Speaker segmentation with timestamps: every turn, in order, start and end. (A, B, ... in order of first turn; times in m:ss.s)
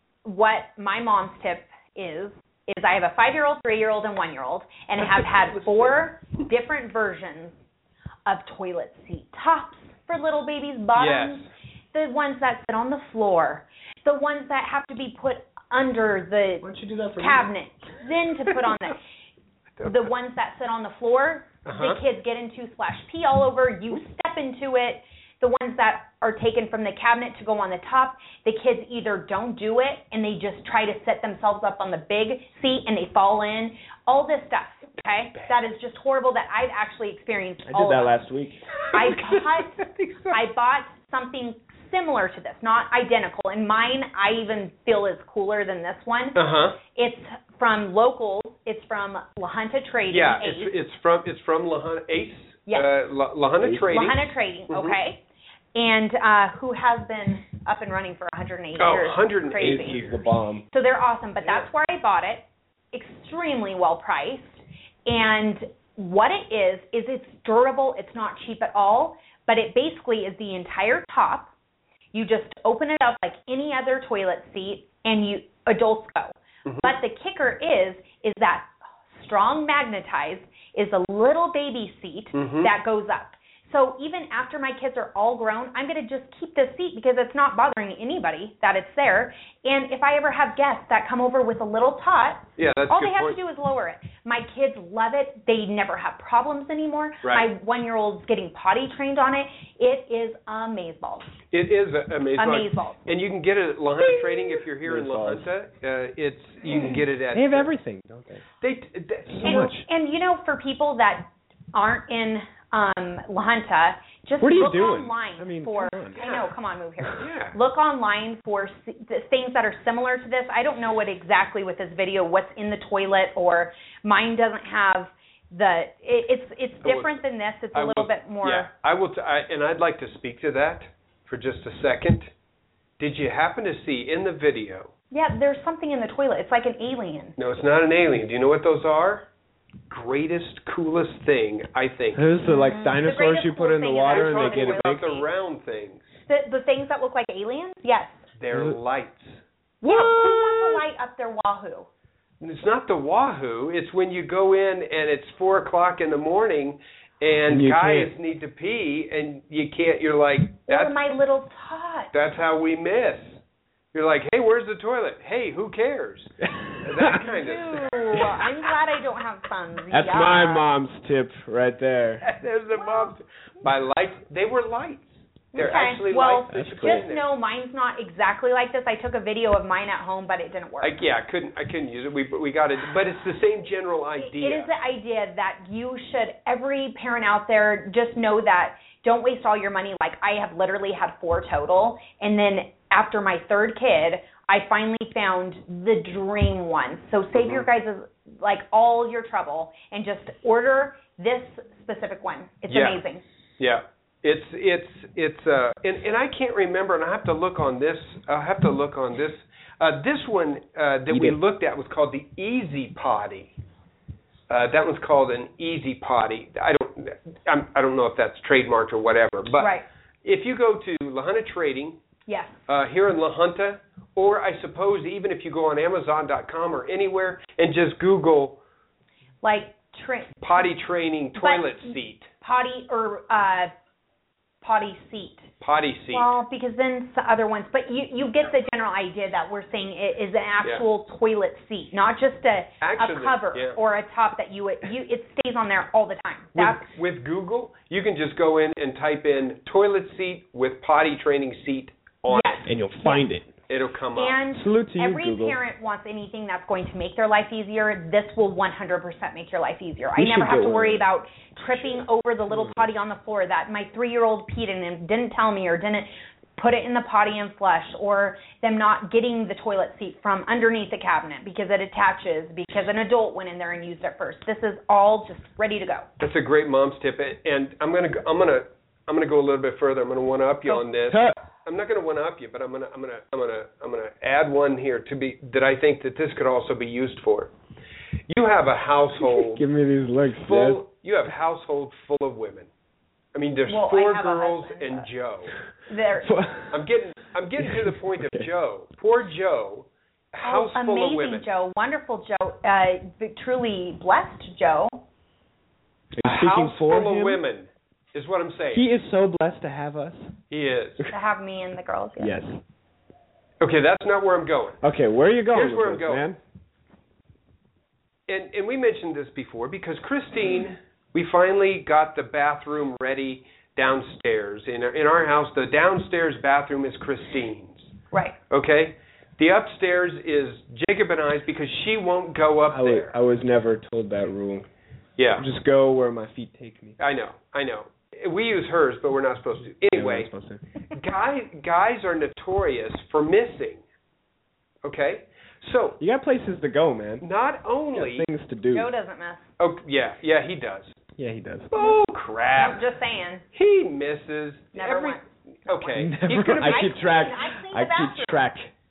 0:00.2-0:07.6 A
0:05.0-0:06.1 B
0:08.2-0:19.0 A
0:11.0-0:11.5 B
0:16.6-0:17.4 B
0:19.8-0:20.1 B
0:19.8-0:38.2 A
0:21.6-0:22.0 B
0:35.0-0:35.6 B
0:37.6-0:38.6 C
0:38.8-0:40.4 B
0:38.9-0:50.7 A
0:46.3-0:46.8 B
0:50.1-0:55.0 B
0:52.6-0:52.9 A
0:53.6-0:53.9 C
0:53.8-0:55.2 A
0:55.7-1:00.1 A
0:58.8-1:00.2 B
0:59.6-1:00.6 C
1:00.7-1:11.5 A
1:12.1-1:41.4 A
1:16.6-1:17.0 B
1:22.3-1:22.7 B
1:32.6-1:33.4 B
1:37.2-1:37.5 B
1:41.5-1:47.7 B
1:42.4-1:43.0 A
1:44.0-1:45.5 C
1:47.3-1:48.4 C
1:48.6-1:49.8 B
1:49.3-1:49.8 C
1:49.4-2:08.7 A
1:54.4-1:56.2 C
1:56.2-1:56.5 B
1:57.2-1:57.6 B
2:06.8-2:12.3 B
2:13.0-2:14.9 B
2:15.1-2:17.4 A
2:17.4-2:19.3 B
2:19.9-2:22.3 B
2:22.1-2:25.1 C
2:22.4-2:25.3 A
2:24.1-2:26.1 B
2:26.3-2:28.2 A
2:28.4-2:29.4 B
2:28.5-2:28.8 C
2:29.8-2:31.9 A
2:29.8-2:30.6 C
2:32.4-2:40.9 B
2:37.5-2:38.1 C
2:40.7-2:42.1 A
2:42.1-2:43.4 B
2:43.9-2:48.4 B
2:46.4-2:47.2 C
2:47.1-2:50.6 A
2:49.9-2:52.2 C
2:52.2-2:57.3 B
2:52.7-2:53.1 A
2:55.5-3:01.0 A
2:56.5-2:57.1 C
3:00.8-3:04.7 B
3:04.2-3:23.2 A
3:17.3-3:17.7 B
3:22.7-3:23.0 B
3:23.6-3:33.5 B
3:31.1-3:31.4 C
3:34.5-3:42.0 B
3:39.6-3:39.8 A
3:42.3-3:42.6 A
3:42.7-3:48.6 B
3:49.4-3:50.6 A
3:50.4-3:52.3 B
3:51.4-3:53.7 A
3:54.6-3:55.5 A
3:55.6-3:56.3 B
3:56.1-4:06.9 A
4:02.8-4:03.8 B
4:06.5-4:12.7 B
4:12.3-4:13.2 A
4:12.6-4:13.5 C
4:13.7-4:14.4 B
4:14.1-4:36.1 A
4:14.5-4:15.6 C
4:20.2-4:21.0 C
4:22.5-4:22.8 C
4:36.2-4:47.5 B
4:41.0-4:41.4 C
4:48.3-4:49.6 B
4:49.2-4:50.8 C
4:50.4-4:52.7 B
4:53.3-4:55.5 B
4:53.7-4:55.1 A
4:55.9-4:56.3 A
4:56.2-4:56.8 C
4:56.7-5:01.5 B
4:57.6-4:58.5 C
5:00.4-5:05.0 A
5:06.2-5:07.4 C
5:06.2-5:08.8 B
5:08.7-5:10.3 C
5:10.5-5:11.0 B
5:11.1-5:12.4 A
5:12.2-5:12.6 C
5:13.6-5:14.8 B
5:14.8-5:16.4 C
5:15.5-5:16.2 B
5:18.3-5:27.9 B
5:28.5-5:33.1 B
5:32.7-5:34.7 C
5:35.2-5:35.4 B
5:35.4-5:37.0 C
5:37.0-5:40.3 B
5:39.8-5:40.6 C
5:40.9-5:43.8 B
5:44.8-5:46.0 B
5:46.0-5:47.2 C
5:47.2-5:48.3 B
5:47.9-5:48.9 C
5:48.7-5:49.5 A
5:49.6-5:51.0 B
5:51.2-5:51.7 C
5:51.7-5:52.8 B
5:52.5-5:53.4 A
5:53.5-5:56.9 B
5:54.7-5:55.2 A
5:55.9-5:58.7 C
5:56.3-5:58.5 A